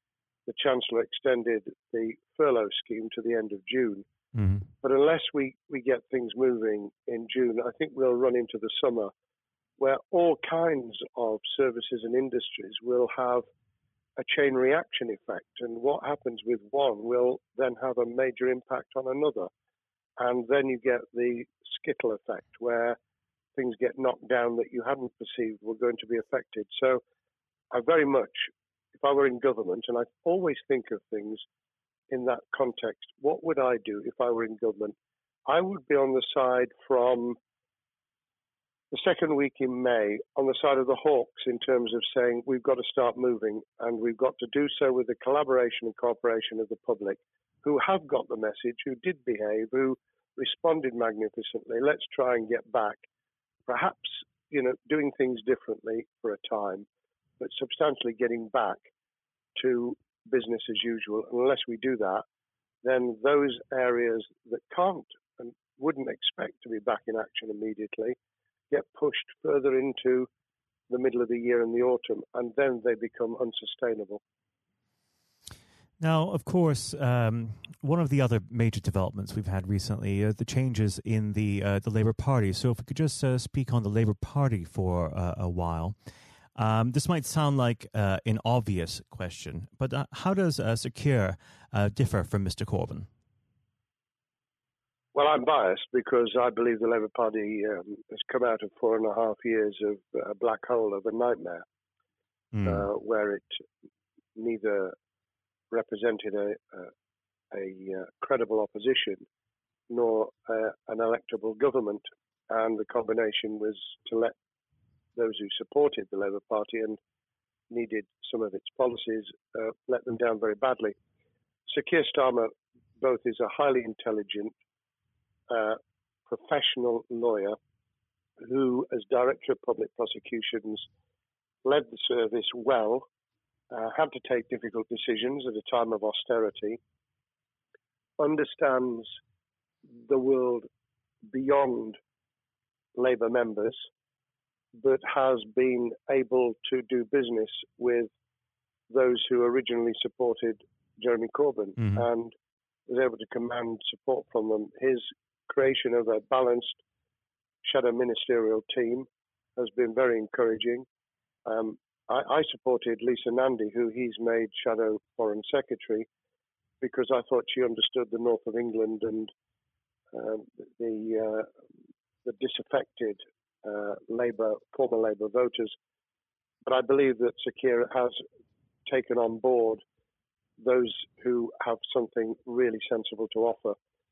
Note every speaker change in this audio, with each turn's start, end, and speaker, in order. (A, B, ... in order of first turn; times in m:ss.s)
0:00.5-0:04.1 A
0:04.4-0:04.7 B
0:04.8-0:09.1 A
0:09.8-0:13.5 A
0:14.2-0:19.5 A
0:20.2-0:23.0 A
0:23.6-0:27.0 A
0:27.7-0:31.4 A
0:32.1-0:35.0 A
0:35.5-0:37.4 A
0:38.9-0:53.0 A
0:53.7-0:56.9 A
0:57.4-0:58.8 A
0:59.6-1:02.2 A
1:02.8-1:08.2 A
1:08.7-1:10.3 A
1:10.9-1:14.2 A
1:16.0-1:26.0 B
1:26.6-1:33.1 B
1:35.1-1:41.6 A
1:42.5-1:42.9 B
1:42.6-1:43.6 A
1:44.4-1:45.0 A
1:45.7-1:46.9 A
1:47.5-1:49.2 A
1:49.9-1:54.4 A
1:55.2-1:57.0 A
1:57.7-2:01.0 A
2:01.7-2:04.6 A
2:05.5-2:07.6 A
2:08.4-2:10.9 A
2:11.6-2:13.1 A
2:13.7-2:16.8 A
2:18.2-2:19.2 A
2:19.9-2:20.7 A
2:21.3-2:22.0 A
2:23.0-2:23.8 A
2:24.8-2:28.1 A
2:28.9-2:32.3 A
2:31.8-2:32.0 B
2:32.9-2:36.8 A
2:37.6-2:40.9 A
2:41.5-2:46.1 A
2:46.8-2:49.3 A
2:50.1-2:51.5 A
2:52.2-2:55.8 A
2:56.6-2:58.2 A
2:58.9-2:59.8 A
3:00.6-3:03.8 A